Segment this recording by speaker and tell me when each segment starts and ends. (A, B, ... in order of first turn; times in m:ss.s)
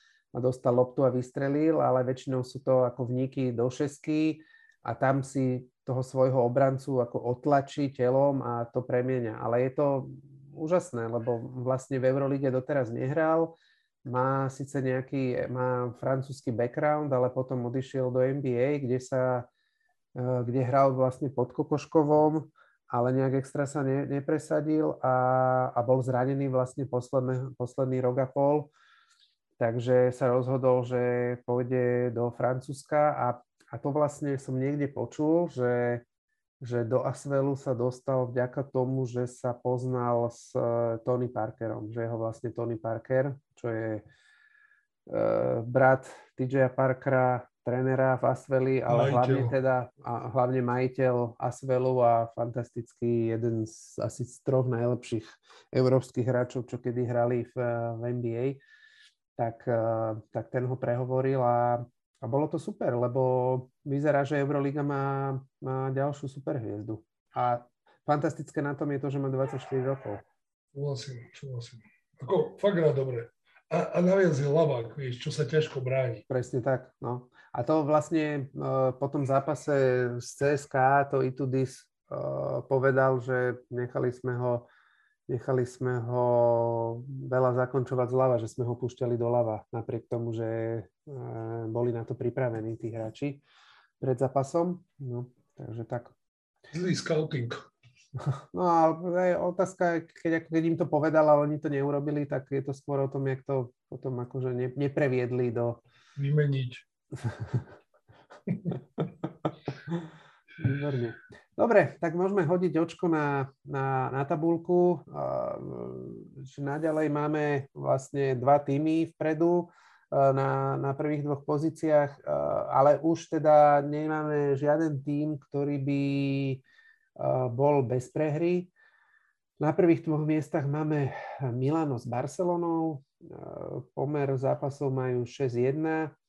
0:00.3-0:19.5 A
0:20.2-0:28.7 A
0:29.6-0:36.0 A
0:36.6-0:44.0 A
0:45.1-0:58.6 A
0:48.9-0:49.5 B
0:59.4-1:10.2 A
1:10.7-1:16.2 B
1:16.3-1:24.7 A
1:25.3-1:33.4 A
1:34.0-1:36.1 A
1:36.7-1:37.7 B
1:38.5-1:45.8 A
1:46.2-1:46.8 B
1:48.5-1:48.7 B
1:50.6-2:06.6 A
2:07.2-2:08.7 A
2:09.6-2:16.1 A